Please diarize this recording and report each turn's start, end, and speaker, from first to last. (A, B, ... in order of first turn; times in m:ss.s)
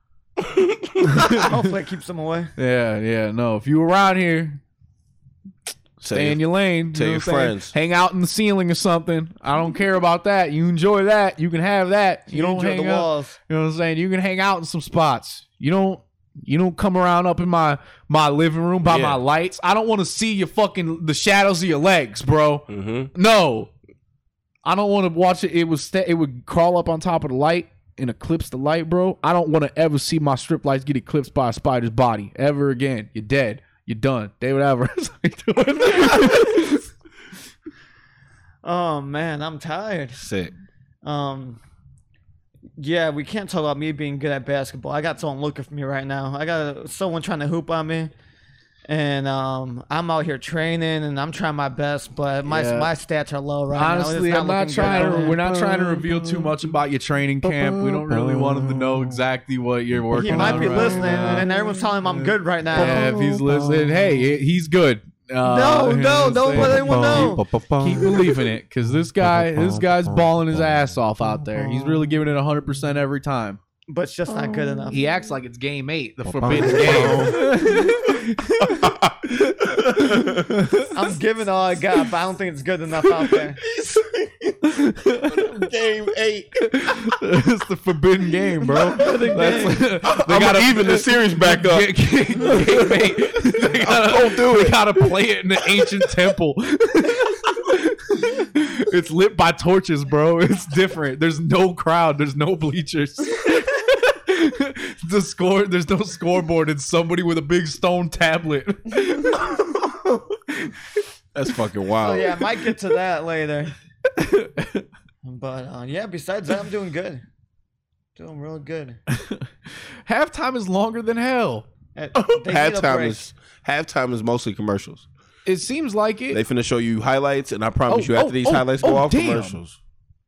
0:00.4-0:00.9 A
0:01.0-0:01.6 B
0:01.2-0:02.5 C
0:02.6-0:04.6 B
0:06.0-0:07.7 A
0:06.1-0:23.7 B
0:12.3-0:13.4 C
0:18.9-0:19.2 A
0:22.7-0:23.1 A
0:24.6-0:36.8 B
0:38.6-0:40.2 C
0:40.2-0:40.5 A
0:41.0-0:41.6 C
0:42.8-0:48.1 C
0:48.9-0:55.4 C
0:52.5-0:52.9 B
0:53.7-1:01.5 B
0:54.8-0:56.6 A
0:57.4-0:59.2 A
1:00.1-1:03.2 C
1:00.2-1:01.4 A
1:02.7-1:13.6 B
1:02.8-1:04.3 A
1:05.4-1:07.4 C
1:06.5-1:08.4 A
1:09.2-1:10.8 A
1:11.4-1:12.0 A
1:13.9-1:15.0 C
1:14.9-1:19.0 B
1:16.3-1:18.0 A
1:16.5-1:17.3 C
1:18.6-1:20.6 A
1:19.6-1:20.9 B
1:20.9-1:23.6 C
1:23.3-1:24.6 A
1:24.6-1:25.6 B
1:25.3-1:26.6 A
1:26.6-1:49.6 B
1:28.7-1:29.8 C
1:29.1-1:35.1 A
1:51.4-1:52.5 A
1:52.0-1:53.7 C
1:54.1-1:54.9 B
1:55.2-1:57.2 C
1:58.2-1:59.0 C
1:59.1-2:01.7 B
2:02.0-2:03.2 C
2:02.2-2:05.1 A
2:05.5-2:06.4 B
2:06.3-2:09.8 A
2:07.9-2:09.6 B